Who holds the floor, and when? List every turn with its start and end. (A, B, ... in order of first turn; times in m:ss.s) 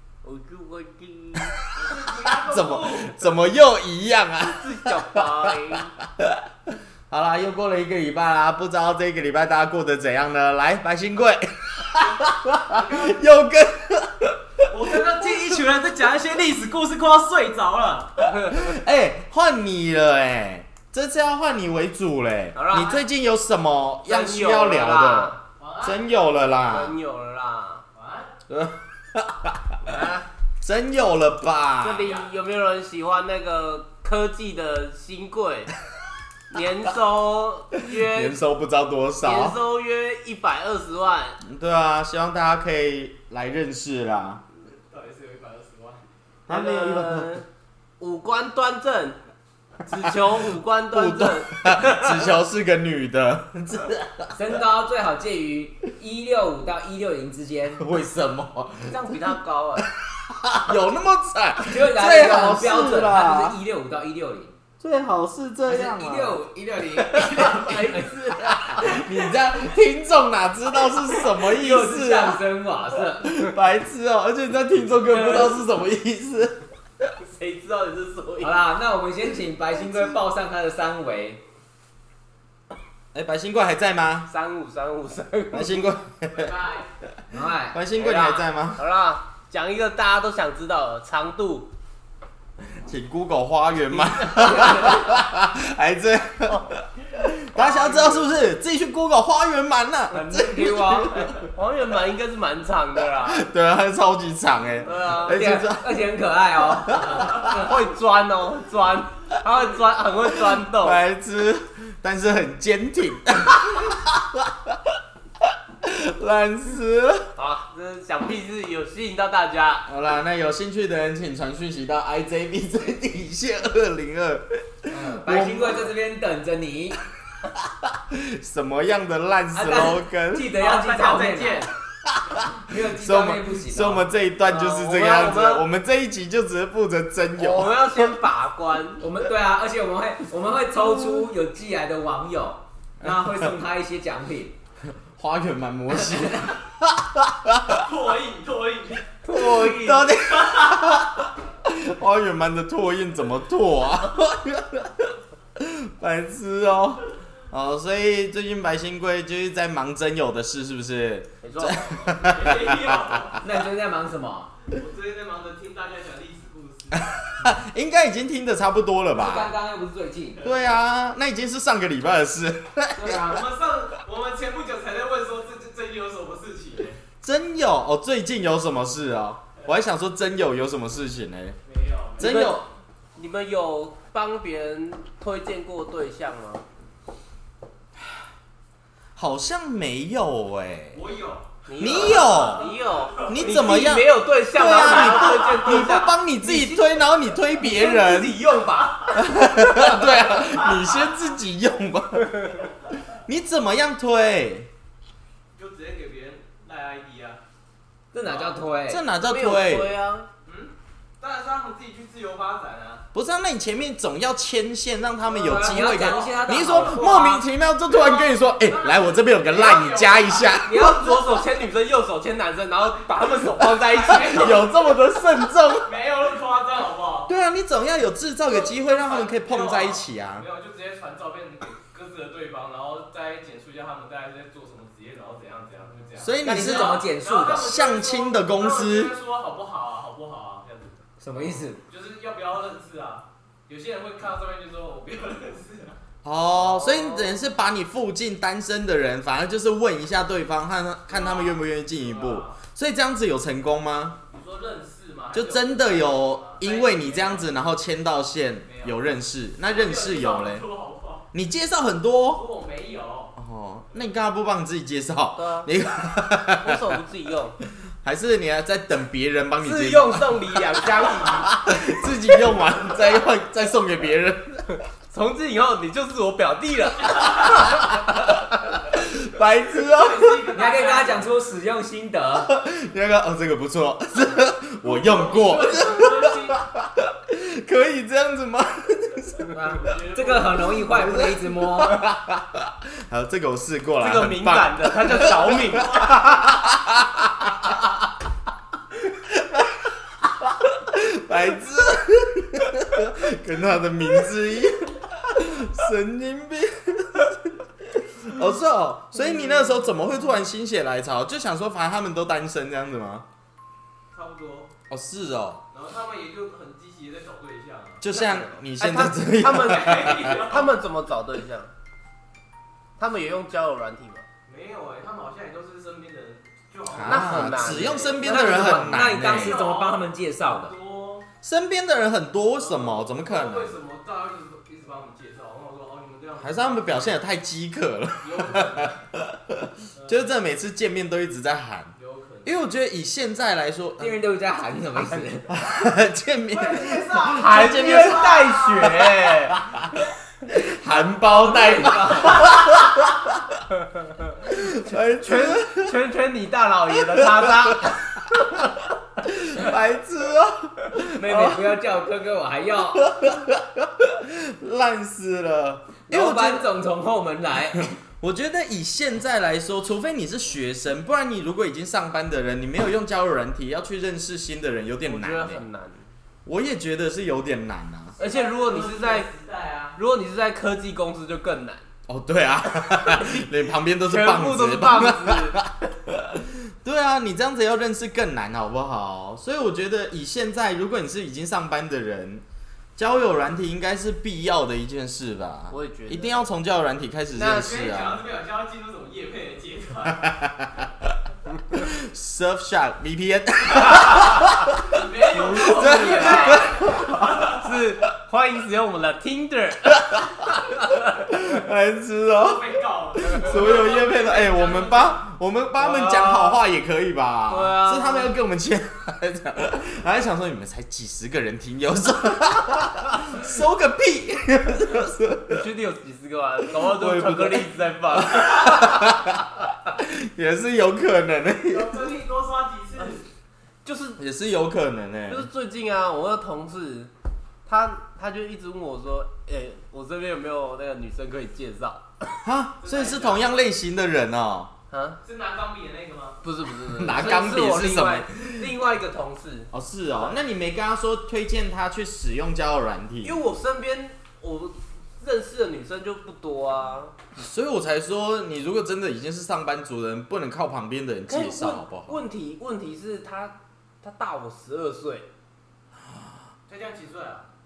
0:00.2-0:01.6 A
0:01.7-0:03.2 B
0:01.9-0:06.4 C
0:04.4-0:06.0 A
0:07.1-0:15.6 C
0:12.0-0:13.2 B
0:14.7-0:18.2 B
0:18.3-0:27.0 C
0:22.6-0:23.0 A
0:24.1-0:25.4 A
0:25.6-0:26.0 B
0:26.7-0:27.8 A
0:28.0-0:28.3 B
0:28.5-0:30.0 C
0:29.8-0:30.2 A
0:30.6-0:32.1 C
0:31.8-0:35.7 A
0:36.5-0:38.4 A
0:37.9-0:39.6 C
0:39.2-0:41.4 A
0:41.4-0:44.4 C
0:44.8-0:46.0 B
0:46.5-0:47.4 C
0:46.5-0:47.4 A
0:48.0-0:49.2 A
0:49.9-0:52.3 A
0:50.9-0:54.3 C
0:54.3-0:57.8 D
0:57.8-0:59.2 C
0:58.9-0:59.9 A
1:00.5-1:03.6 C
1:01.6-1:04.5 D
1:04.8-1:06.4 C
1:05.7-1:09.0 D
1:07.2-1:09.0 A
1:07.2-1:07.4 C
1:08.7-1:12.4 C
1:11.1-1:13.6 D
1:13.3-1:17.1 C
1:17.2-1:18.6 A
1:18.4-1:21.4 D
1:23.1-1:24.3 C
1:24.3-1:25.9 A
1:25.5-1:26.5 C
1:26.3-1:26.9 B
1:27.3-1:27.8 D
1:27.7-1:28.8 C
1:28.0-1:31.7 A
1:32.7-1:41.4 C
1:34.2-1:35.0 A
1:37.6-1:38.3 A
1:40.1-1:41.3 D
1:40.6-1:43.5 A
1:43.2-1:46.0 C
1:44.8-1:45.4 A
1:45.3-1:47.6 D
1:46.9-1:47.5 C
1:47.3-1:51.0 A
1:50.5-1:54.8 C
1:55.8-1:57.3 C
1:57.4-1:59.9 A
1:59.9-2:05.9 C
2:04.9-2:07.0 D
2:07.8-2:10.5 C
2:09.5-2:11.7 D
2:10.6-2:11.7 B
2:12.1-2:18.1 C
2:12.6-2:14.1 D
2:14.4-2:15.7 A
2:17.4-2:19.0 A
2:19.0-2:24.5 D
2:23.0-2:23.5 C
2:24.9-2:27.8 C
2:27.7-2:29.1 B
2:29.2-2:30.1 A
2:29.3-2:43.4 C
2:30.2-2:31.0 B
2:41.4-2:41.9 A
2:42.0-2:43.4 B
2:43.4-2:44.5 D
2:44.7-2:47.1 B
2:46.9-2:49.5 C
2:49.1-2:50.4 D
2:50.4-2:53.3 C
2:53.0-2:53.4 D
2:53.3-2:57.0 B
2:57.2-3:01.6 C
3:01.7-3:02.4 B
3:02.2-3:02.7 C
3:02.2-3:02.6 A
3:03.2-3:06.6 A
3:09.2-3:11.0 C
3:10.9-3:13.4 B
3:11.7-3:17.0 A
3:11.8-3:18.4 C
3:17.6-3:19.2 A
3:18.7-3:19.2 B
3:19.2-3:22.7 C
3:20.3-3:21.1 B
3:23.3-3:24.7 C
3:25.6-3:27.4 B
3:28.1-3:29.0 D
3:28.2-3:28.6 B
3:28.9-3:29.9 C
3:29.2-3:30.3 A
3:30.4-3:33.0 B
3:33.1-3:41.4 C
3:35.3-3:37.4 D
3:35.8-3:36.2 A
3:37.9-3:40.6 B
3:40.6-3:44.7 A
3:43.8-3:45.0 B
3:44.1-3:45.9 C
3:45.7-3:47.3 B
3:47.3-3:50.5 C
3:48.5-4:06.0 B
3:56.2-3:57.0 C
3:56.4-3:57.7 D
3:57.5-3:59.1 C
4:01.2-4:01.8 D
4:06.2-4:14.2 C
4:06.6-4:07.4 A
4:11.1-4:12.6 B
4:14.3-4:17.5 B
4:15.3-4:20.7 C
4:18.6-4:19.0 B
4:19.6-4:21.3 B
4:21.3-4:22.4 C
4:22.3-4:23.3 B
4:23.4-4:26.9 C
4:25.4-4:25.7 A
4:26.5-4:27.6 A
4:28.0-4:34.6 C
4:29.6-4:31.6 A
4:35.1-4:37.9 A
4:38.9-4:40.5 C
4:39.8-4:41.3 B
4:40.5-4:42.5 D
4:42.4-4:49.6 C
4:44.8-4:46.6 B
4:49.5-4:52.1 D
4:49.6-4:50.9 B
4:50.8-4:57.8 C
4:54.0-4:56.1 A
4:55.3-4:56.2 B
4:59.4-5:13.2 C
5:14.1-5:14.7 B
5:14.9-5:15.6 C
5:15.7-5:18.0 B
5:18.0-5:20.4 C
5:18.1-5:21.7 A
5:19.5-5:20.8 B
5:23.0-5:24.3 A
5:24.5-5:27.9 B
5:26.9-5:29.6 C
5:27.0-5:28.8 A
5:28.2-5:30.7 D
5:28.8-5:31.3 B
5:31.4-5:33.8 C
5:32.6-5:37.2 B
5:36.4-5:41.9 C
5:38.2-5:39.0 B
5:40.0-5:40.3 B
5:42.0-5:42.6 B
5:42.4-5:44.2 C
5:44.0-5:45.5 D
5:45.5-5:48.5 C
5:46.5-5:49.1 B
5:47.3-5:49.6 A
5:49.0-5:53.6 C
5:51.1-5:52.7 D
5:54.4-5:56.0 C
5:55.2-5:58.3 A
5:57.2-5:57.9 C
5:59.2-6:01.8 C
6:01.1-6:03.1 D
6:03.0-6:06.7 C
6:06.1-6:07.9 D
6:08.2-6:15.6 C
6:15.0-6:16.1 A
6:16.5-6:18.2 C
6:18.2-6:19.7 B
6:18.2-6:19.3 A
6:18.6-6:20.0 D
6:20.0-6:21.9 A
6:22.1-6:32.4 C
6:23.0-6:23.4 A
6:24.0-6:25.6 A
6:33.0-6:38.2 C
6:35.7-6:36.5 A
6:37.4-6:37.7 A
6:37.4-6:40.3 B
6:40.2-6:40.8 C
6:41.7-6:47.4 C
6:44.9-6:47.6 B
6:45.3-6:46.9 A
6:47.4-6:51.2 A
6:51.2-7:05.6 C
6:52.3-6:55.2 B
6:55.8-6:56.6 A
6:57.5-6:58.3 A
7:05.5-7:09.2 A
7:06.8-7:12.0 C
7:11.7-7:13.2 B
7:13.8-7:14.2 A
7:14.2-7:15.5 C
7:15.3-7:17.1 A
7:17.7-7:22.2 A
7:22.4-7:24.7 C
7:22.8-7:23.6 B
7:24.9-7:25.2 A
7:25.2-7:26.4 B
7:26.4-7:30.4 A
7:26.9-7:28.7 C
7:29.7-7:33.4 C
7:33.2-7:37.2 A
7:37.4-7:42.2 C
7:41.3-7:45.3 A
7:46.7-7:47.5 B